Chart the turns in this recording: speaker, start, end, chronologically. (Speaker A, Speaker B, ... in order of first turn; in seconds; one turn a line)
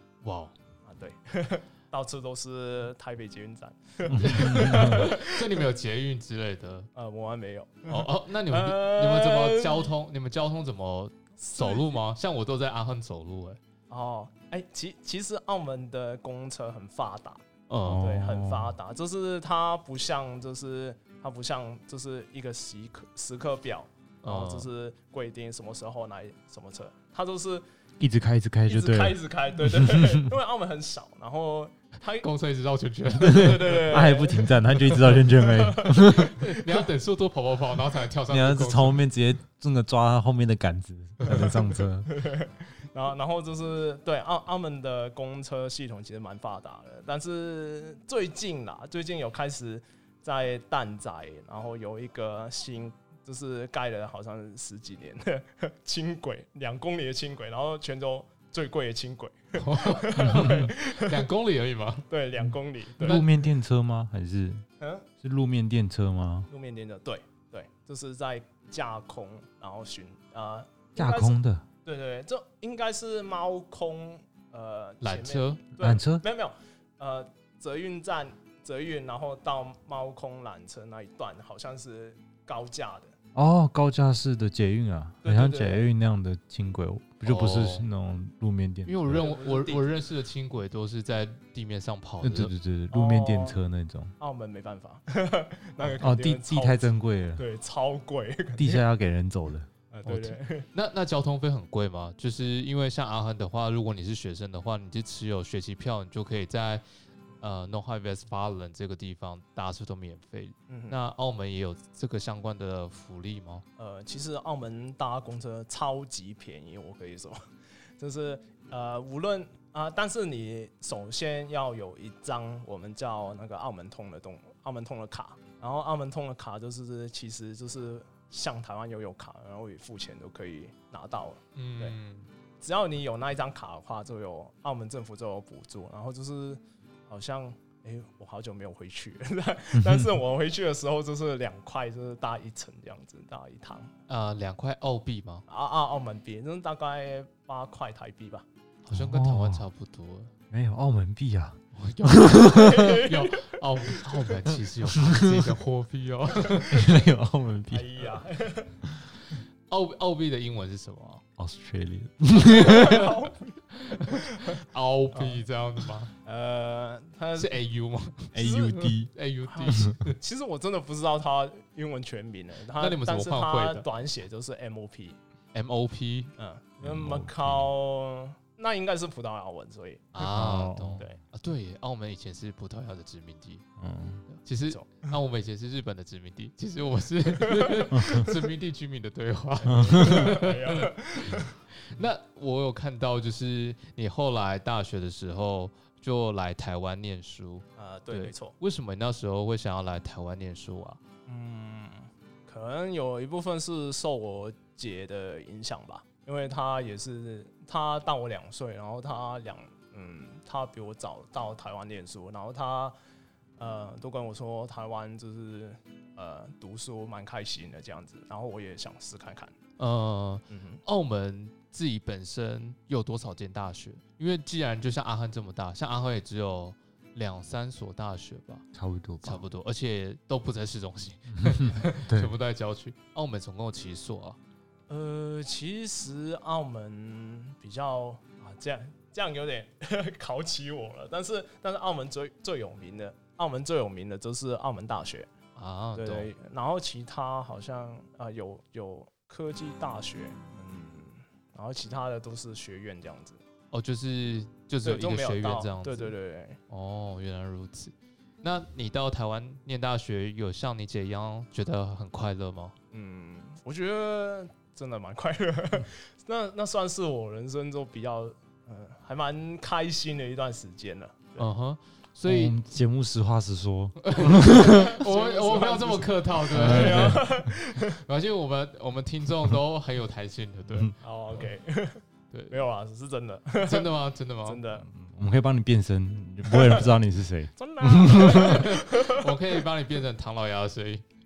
Speaker A: 0.2-0.5
Speaker B: 0.8-5.4
Speaker C: 4.1-5.1
Speaker A: 4.2-6.9
Speaker B: 7.0-9.9
Speaker A: 7.9-13.6
Speaker B: 11.4-12.0
Speaker B: 13.9-27.6
Speaker A: 17.7-18.1
Speaker C: 17.9-18.7
Speaker A: 24.2-24.7
Speaker C: 28.0-30.3
Speaker B: 28.7-32.3
Speaker A: 32.2-34.0
Speaker B: 33.1-36.2
Speaker C: 33.2-36.4
Speaker A: 36.0-39.0
Speaker C: 38.3-42.1
Speaker B: 42.1-61.2
Speaker A: 59.6-62.1
Speaker C: 60.2-60.6
Speaker B: 62.1-63.2
Speaker A: 63.0-63.3
Speaker C: 63.0-64.7
Speaker B: 64.8-65.1
Speaker C: 65.2-66.5
Speaker B: 66.5-83.1
Speaker C: 71.0-71.7
Speaker A: 75.0-75.6
Speaker C: 75.8-76.2
Speaker C: 83.3-89.2
Speaker B: 85.2-85.8
Speaker A: 87.2-87.9
Speaker A: 88.9-92.5
Speaker B: 89.1-89.9
Speaker C: 92.2-94.1
Speaker B: 92.9-93.6
Speaker B: 94.2-98.8
Speaker C: 95.8-97.4
Speaker C: 98.6-99.7
Speaker B: 99.9-100.7
Speaker A: 100.1-106.8
Speaker A: 107.4-113.6
Speaker B: 110.7-111.0
Speaker B: 113.8-117.4
Speaker B: 118.0-132.0
Speaker A: 131.6-132.3
Speaker B: 132.6-143.9
Speaker C: 139.8-140.1
Speaker A: 144.1-145.4
Speaker B: 145.5-148.5
Speaker A: 148.8-150.3
Speaker C: 148.9-149.6
Speaker C: 150.5-153.0
Speaker A: 151.8-156.9
Speaker B: 152.4-154.1
Speaker C: 154.3-155.5
Speaker C: 156.7-157.9
Speaker B: 157.7-158.8
Speaker A: 159.7-161.2
Speaker C: 161.4-163.2
Speaker B: 162.5-164.6
Speaker A: 162.6-163.1
Speaker A: 163.7-166.1
Speaker B: 165.1-165.4
Speaker B: 166.2-167.5
Speaker A: 167.4-170.2
Speaker C: 168.3-169.1
Speaker B: 168.4-168.9
Speaker B: 169.5-175.2
Speaker A: 172.8-173.9
Speaker A: 175.5-176.3
Speaker B: 176.4-180.2
Speaker C: 176.8-177.7
Speaker A: 180.2-183.7
Speaker C: 180.3-181.1
Speaker C: 183.8-184.2
Speaker A: 184.3-201.0
Speaker B: 184.7-185.1
Speaker B: 187.4-187.9
Speaker C: 187.9-188.3
Speaker B: 189.7-191.6
Speaker C: 189.7-190.2
Speaker B: 197.8-198.6
Speaker B: 201.3-212.9
Speaker B: 213.6-219.5
Speaker A: 219.8-228.7
Speaker B: 220.5-220.8
Speaker C: 228.7-229.4
Speaker A: 229.2-234.4
Speaker C: 231.4-232.3
Speaker B: 234.9-245.3
Speaker A: 245.6-246.3
Speaker B: 246.0-253.4
Speaker A: 253.7-256.1
Speaker B: 254.8-256.6
Speaker A: 256.7-262.8
Speaker B: 262.9-271.5
Speaker A: 271.4-272.6
Speaker C: 272.3-274.9
Speaker A: 274.0-281.0
Speaker B: 274.6-278.0
Speaker C: 276.5-277.3
Speaker B: 281.0-283.9
Speaker A: 282.3-282.6
Speaker A: 283.6-284.6
Speaker B: 284.4-284.9
Speaker C: 284.9-288.6
Speaker B: 286.5-286.9
Speaker B: 287.6-289.3
Speaker A: 288.1-291.0